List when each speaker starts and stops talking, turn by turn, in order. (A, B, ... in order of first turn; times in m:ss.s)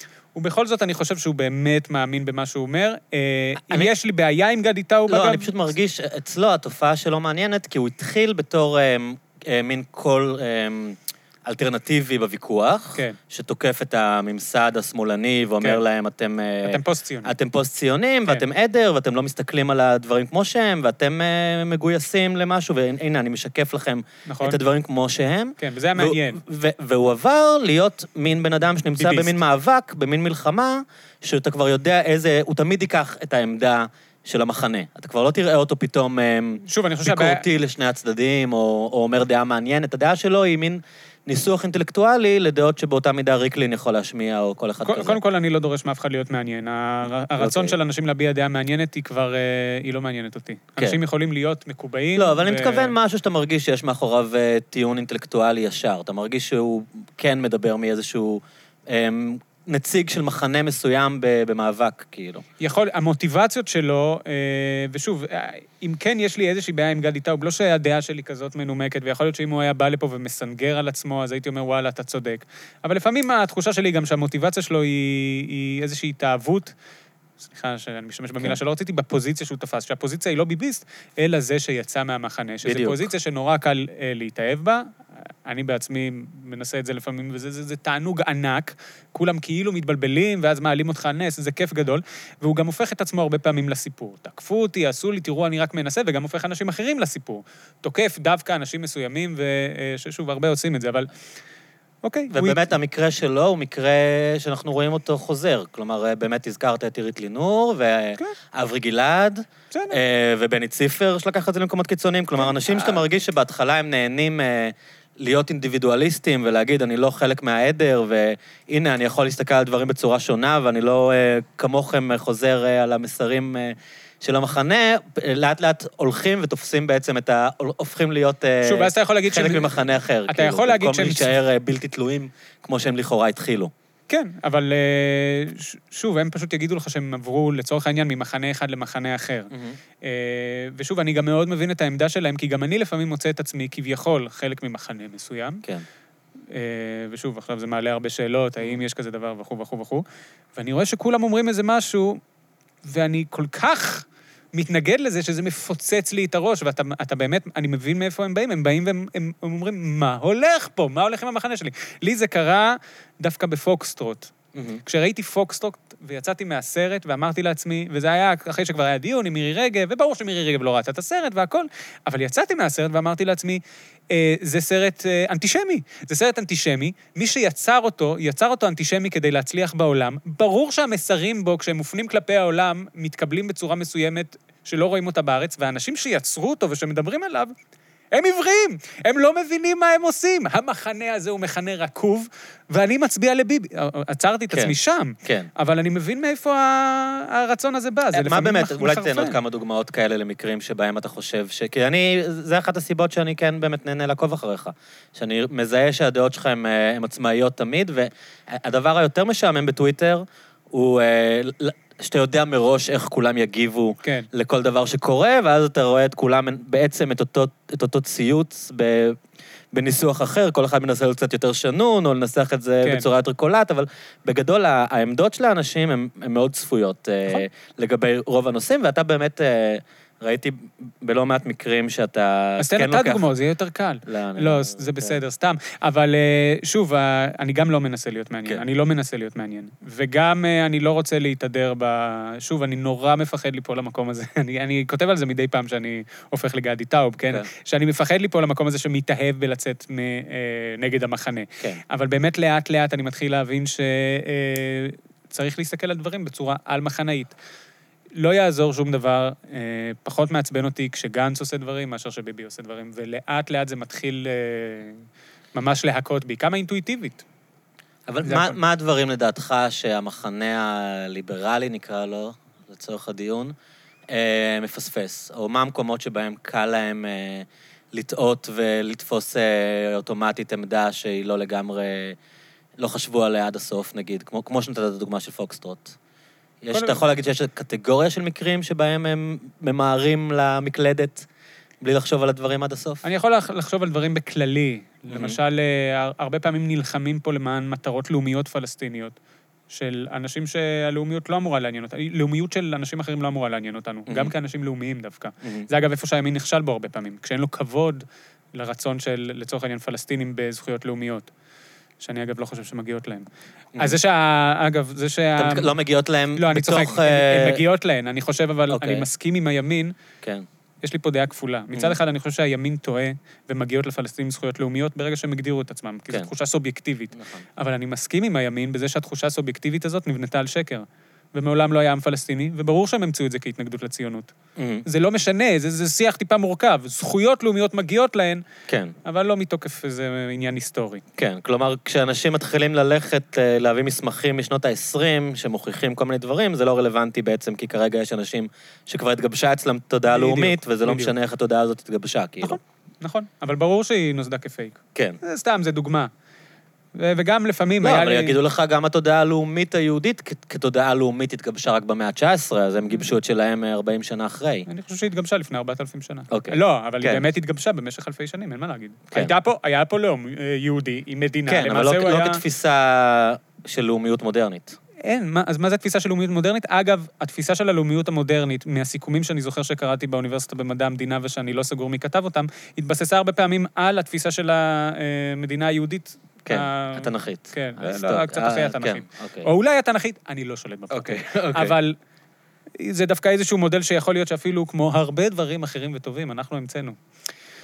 0:00.4-0:05.5 A
0:03.6-0:03.9 B
0:05.1-0:45.2 B
0:16.6-0:17.3 A
0:24.3-0:24.6 A
0:25.6-0:26.4 A
0:29.0-0:29.4 A
0:36.7-0:37.4 A
0:44.8-0:53.0 A
0:47.4-0:47.8 B
0:52.2-1:02.4 B
1:02.6-1:16.7 A
1:17.4-1:41.1 A
1:22.6-1:23.1 B
1:42.0-1:42.6 A
1:42.3-2:13.7 B
1:49.7-1:50.0 A
1:52.4-1:53.0 A
2:08.6-2:09.7 A
2:10.3-2:11.4 A
2:14.1-2:19.5 A
2:19.5-2:19.8 B
2:20.0-2:25.6 A
2:26.5-2:30.0 A
2:30.6-2:32.2 A
2:32.8-2:44.3 A
2:44.6-2:44.8 B
2:44.8-3:07.5 A
3:08.1-3:19.4 A
3:14.5-3:15.5 B
3:18.1-3:39.2 B
3:34.0-3:34.3 A
3:39.7-3:53.3 B
3:52.6-4:17.4 A
3:54.1-3:55.2 B
4:18.2-4:27.2 A
4:28.1-4:33.6 B
4:28.2-4:28.6 A
4:34.1-4:42.2 B
4:42.8-4:46.0 B
4:46.6-4:51.3 B
4:46.7-4:47.0 A
4:51.8-4:53.0 B
4:53.0-4:59.2 A
4:55.1-4:55.4 B
4:59.7-5:11.3 A
5:04.1-5:04.3 B
5:12.0-5:13.3 A
5:13.8-5:15.7 A
5:15.4-5:17.6 B
5:16.4-5:20.0 A
5:18.7-5:19.1 B
5:20.8-5:34.3 A
5:27.2-5:27.4 B
5:34.6-5:34.8 B
5:34.8-5:38.4 A
5:38.7-5:39.0 B
5:39.0-5:41.0 A
5:41.2-5:52.6 B
5:50.1-5:51.1 A
5:52.4-5:56.1 A
5:57.0-5:58.4 A
5:57.8-6:04.7 B
6:04.7-6:12.4 A
6:06.3-6:07.3 B
6:11.5-6:14.8 B
6:15.0-6:32.0 A
6:26.4-6:29.5 B
6:30.9-6:31.8 B
6:32.8-6:37.0 A